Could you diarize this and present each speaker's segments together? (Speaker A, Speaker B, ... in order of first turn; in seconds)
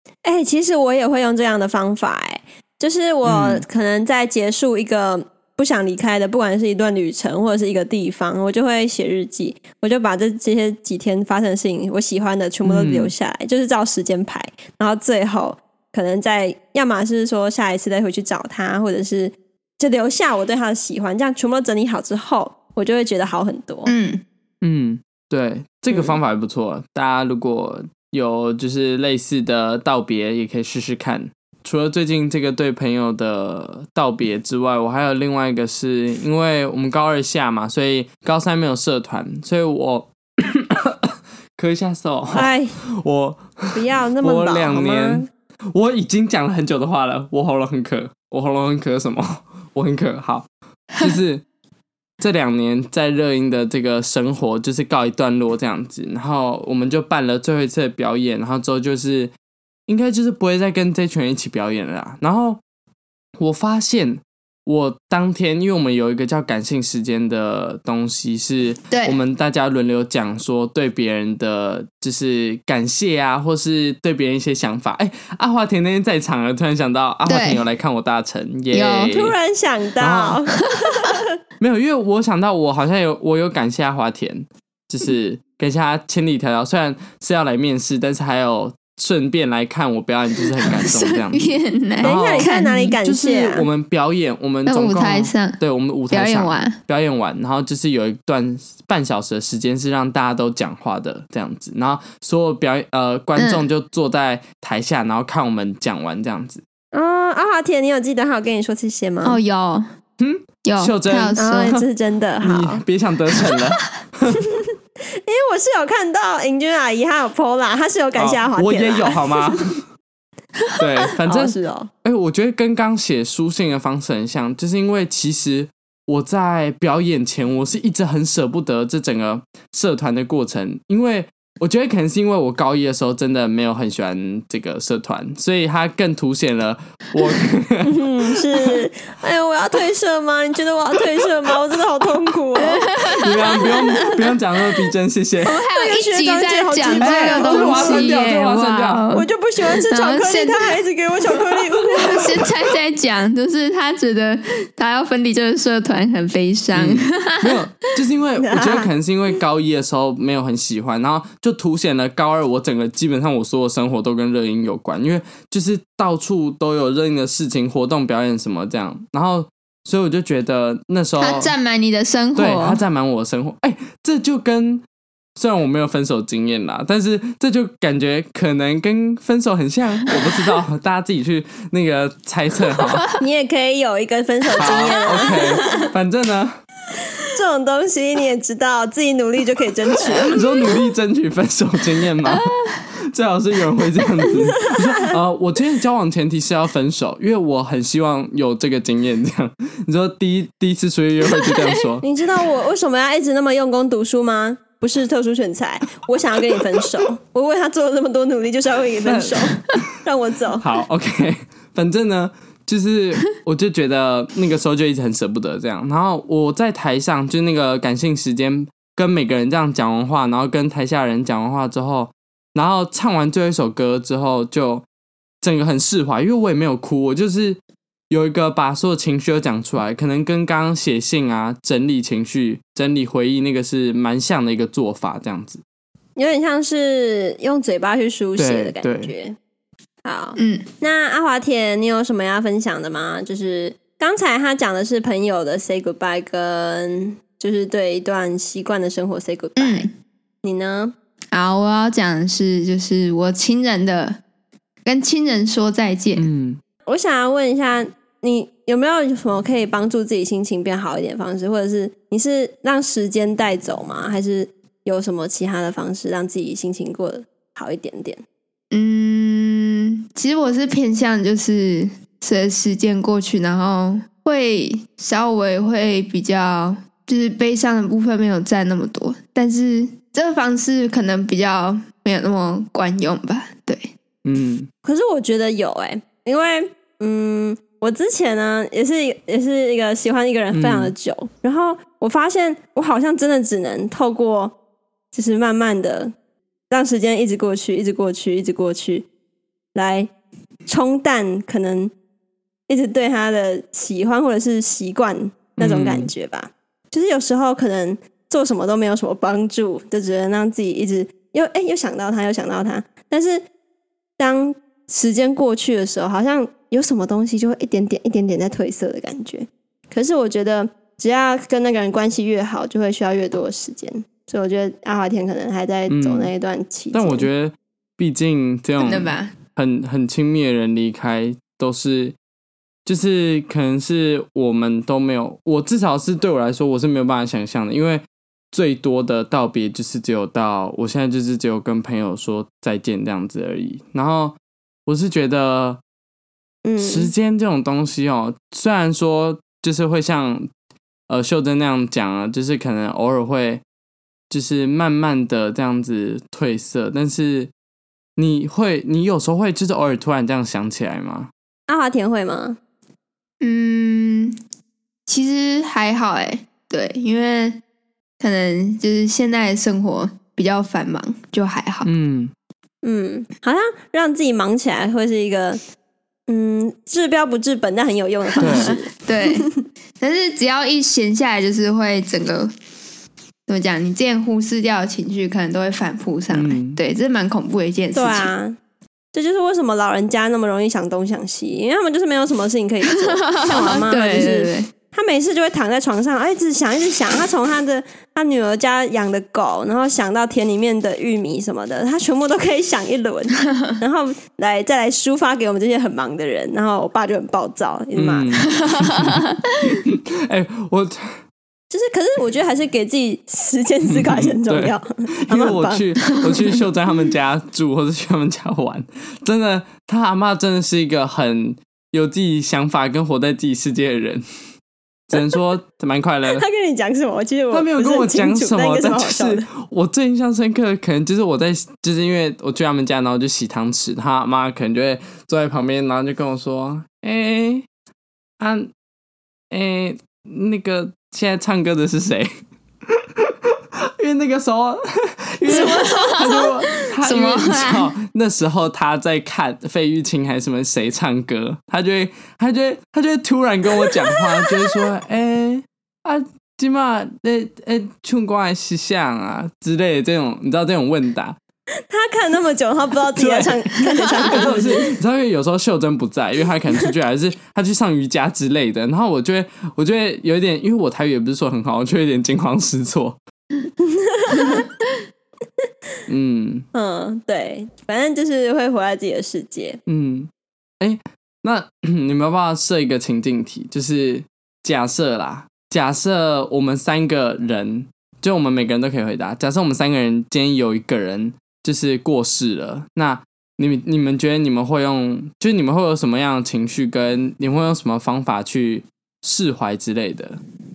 Speaker A: 0.2-23.9, 42.3-42.8, 43.7-45.3, 79.1-81.3, 92.0-93.7, 106.9-109.4, 111.4-112.8, 114.4-114.7, 115.2-119.6, 121.2-121.9, 137.8-143.0, 145.7-148.1, 149.1-152.6, 158.4-158.9, 183.2-185.8, 187.3-190.5, 202.0-210.6, 236.2-239.4, 240.0-249.9, 250.4-250.9, 256.9-268.2, 284.8-294.6, 295.1-296.1, 296.7-299.1, 299.8-300.1, 300.7-301.9, 302.7-313.4, 314.2-327.3, 346.6-347.1, 361.7-362.6, 372.8-375.6, 376.3-379.4, 387.9-388.6, 389.1-408.3, 411.7-416.2, 426.3-429.4, 461.9-464.9, 473.8-474.7, 476.7-479.8
Speaker B: 3.2-3.6, 12.6-13.1, 24.6-51.4, 52.2-59.3, 59.9-62.6, 63.4-79.4, 80.0-80.4, 81.6-91.5, 92.0-92.5, 93.0-106.6, 110.2-111.8, 112.4-114.4, 118.2-119.8, 120.8-138.0, 143.1-145.6, 147.0-149.1, 156.7-171.5, 172.3-174.8, 175.4-183.1, 184.6-186.6, 190.0-202.0, 209.1-209.9, 210.6-224.8, 225.4-227.6, 228.1-235.6, 238.4-239.1, 256.2-256.6, 284.2-284.7, 290.5-290.9, 305.6-306.1, 325.9-326.3, 326.9-332.2, 332.9-344.4, 344.9-345.8, 346.8-350.5, 351.1-353.6, 354.3-357.5, 358.2-361.3, 371.9-372.3, 378.4-378.7, 386.3-386.8, 408.0-411.2, 413.9-424.2, 425.1-426.4, 427.5-437.7, 438.4-438.7, 439.5-442.3, 442.9-461.4, 463.2-473.2, 476.1-476.7, 479.9-500.4
Speaker C: 23.9-24.2, 68.9-69.2, 77.3-77.6, 78.7-79.2, 90.6-93.0, 94.7-95.6, 96.1-96.8, 103.4-103.7, 109.2-109.9, 110.6-111.8, 113.3-113.6, 142.6-144.2, 145.4-150.8, 151.9-157.6, 171.2-172.8, 185.1-185.9, 192.3-192.8, 201.3-201.8, 240.4-240.7, 249.6-249.9, 251.3-254.2, 254.8-256.3, 268.7-283.9, 328.8-329.3, 363.4-364.4, 365.1-367.6, 368.2-371.9, 378.4-382.5, 383.5-388.3, 393.3-394.7, 408.8-409.7, 445.5-447.9